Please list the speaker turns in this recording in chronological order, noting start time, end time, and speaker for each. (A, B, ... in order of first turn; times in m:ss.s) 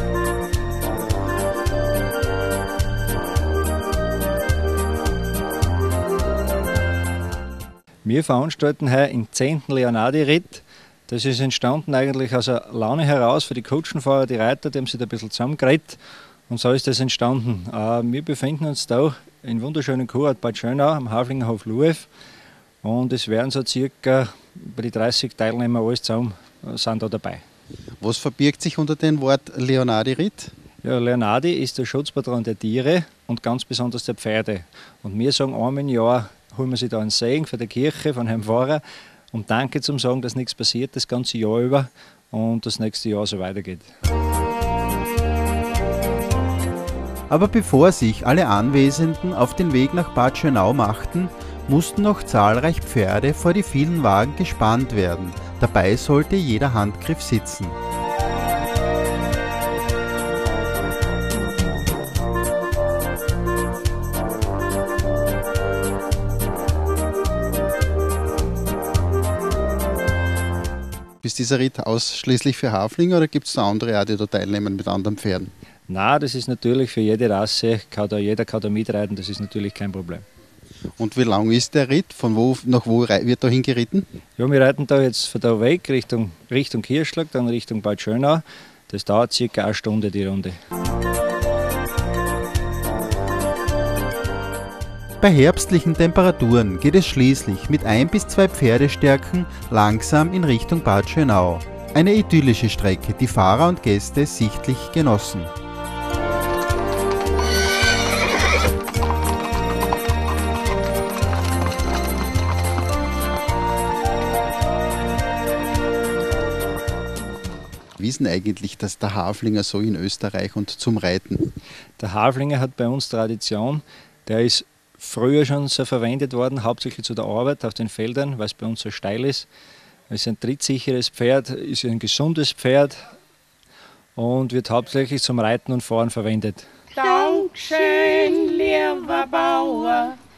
0:08.0-0:22.1 A
0:22.8-0:27.4 A
0:28.0-0:30.5 B
0:30.8-0:43.9 A
0:47.3-0:57.8 B
1:11.2-1:15.5 B
1:15.9-1:20.2 A
1:21.0-1:24.0 B
1:24.4-1:30.6 A
1:35.2-1:45.5 B
1:58.0-2:01.5 B
2:02.0-2:09.5 A
2:10.1-2:13.0 A
2:14.1-2:16.7 A
2:16.9-2:20.2 C